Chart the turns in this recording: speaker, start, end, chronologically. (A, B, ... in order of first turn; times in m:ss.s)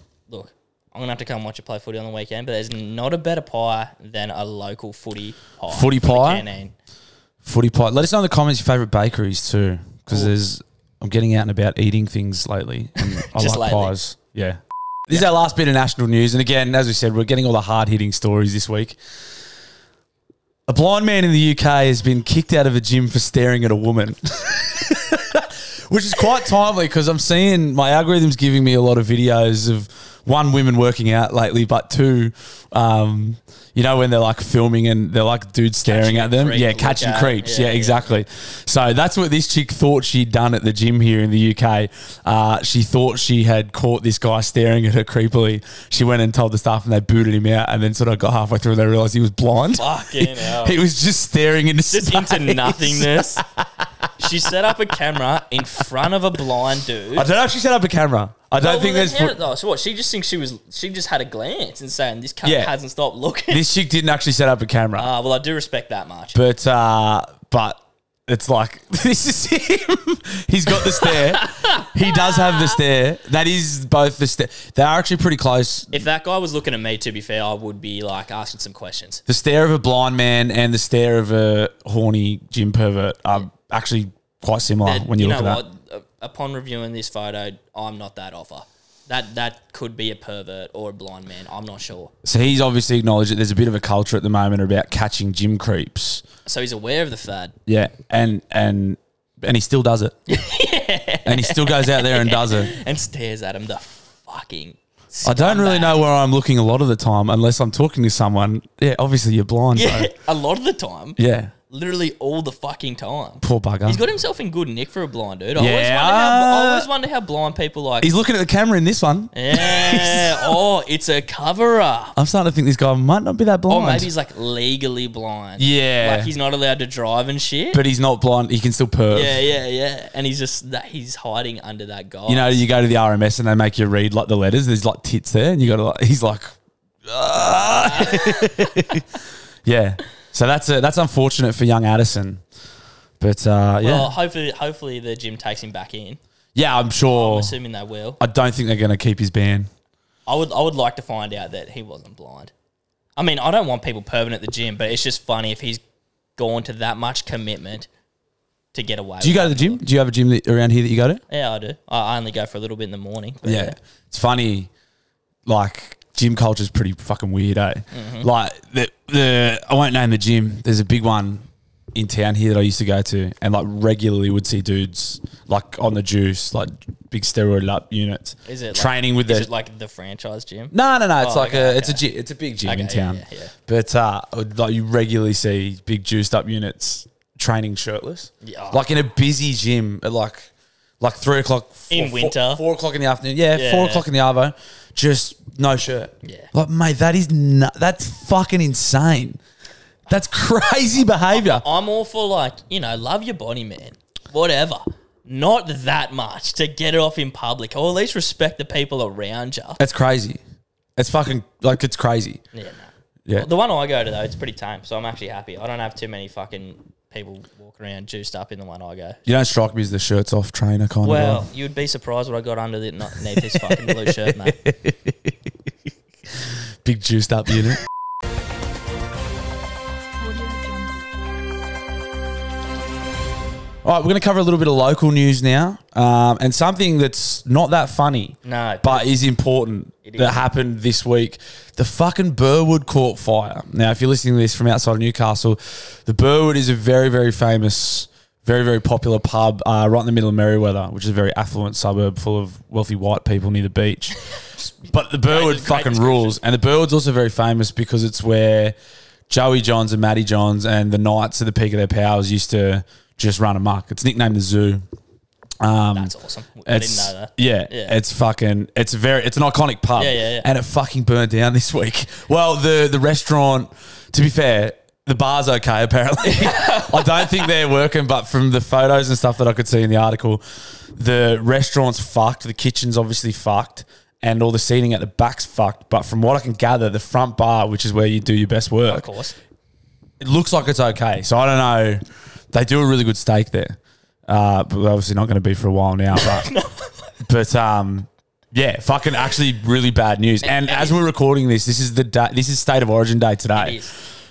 0:00.3-0:06.7 A
0:05.7-0:06.4 B
0:07.4-0:19.0 B
0:13.0-0:13.9 A
0:20.7-0:53.6 B
0:35.8-0:38.2 A
0:49.7-0:50.8 A
0:51.9-0:53.4 A
0:54.2-0:57.3 A
0:57.1-0:59.4 B
0:58.6-1:03.6 A
1:02.4-1:02.7 B
1:03.5-1:05.1 B
1:05.0-1:06.4 A
1:06.3-1:16.0 B
1:10.8-1:12.8 A
1:15.9-1:19.2 A
1:19.3-1:25.6 B
1:24.8-1:32.1 A
1:32.2-1:36.2 B
1:36.4-1:37.6 A
1:37.6-1:40.1 B
1:40.3-1:46.0 A
1:41.3-1:42.7 B
1:45.2-1:50.1 B
1:49.7-1:51.2 A
1:51.2-1:51.5 B
1:51.7-1:58.1 A
1:53.4-1:54.0 B
1:55.6-1:56.9 B
1:58.0-2:00.6 B
1:59.3-2:02.1 A
2:02.1-2:04.1 B
2:03.7-2:07.8 A
2:05.6-2:06.3 B
2:07.7-2:09.4 B
2:09.1-2:12.6 A
2:12.3-2:16.6 B
2:17.1-2:19.0 B
2:17.7-2:18.8 A
2:19.6-2:22.4 B
2:23.2-2:24.1 B
2:23.8-2:26.2 A
2:26.6-2:27.5 B
2:27.1-2:28.2 A
2:28.2-2:29.7 B
2:30.3-2:32.5 A
2:33.2-2:35.8 A
2:36.4-2:37.9 A
2:38.7-2:39.8 A
2:39.2-2:41.2 B
2:41.3-2:43.8 A
2:43.4-2:44.7 B
2:45.4-2:59.5 B
2:47.9-2:48.3 A
2:58.4-3:02.0 A
3:00.7-3:10.5 B
3:02.6-3:03.5 A
3:08.4-3:08.8 A
3:11.0-3:19.4 B
3:11.9-3:12.6 A
3:13.5-3:14.1 A
3:16.2-3:16.5 A
3:20.1-3:21.6 B
3:21.3-3:29.8 A
3:29.8-3:30.4 B
3:31.0-3:32.4 B
3:32.5-3:39.2 A
3:39.3-3:41.5 B
3:41.0-3:44.6 A
3:44.0-3:45.3 B
3:46.8-3:47.8 B
3:53.8-4:14.2 B
3:58.4-3:59.1 A
4:00.0-4:00.4 A
4:14.6-4:16.4 A
4:14.9-4:18.7 B
4:19.3-4:24.8 B
4:25.6-4:26.1 B
4:25.9-4:28.0 A
4:26.6-4:40.4 B
4:30.0-4:30.5 A
4:36.2-4:37.5 A
4:41.0-4:49.1 B
4:48.9-4:49.4 A
4:50.2-4:56.5 B
4:56.1-4:57.1 A
4:57.2-5:03.8 B
5:00.4-5:01.0 A
5:03.5-5:03.9 A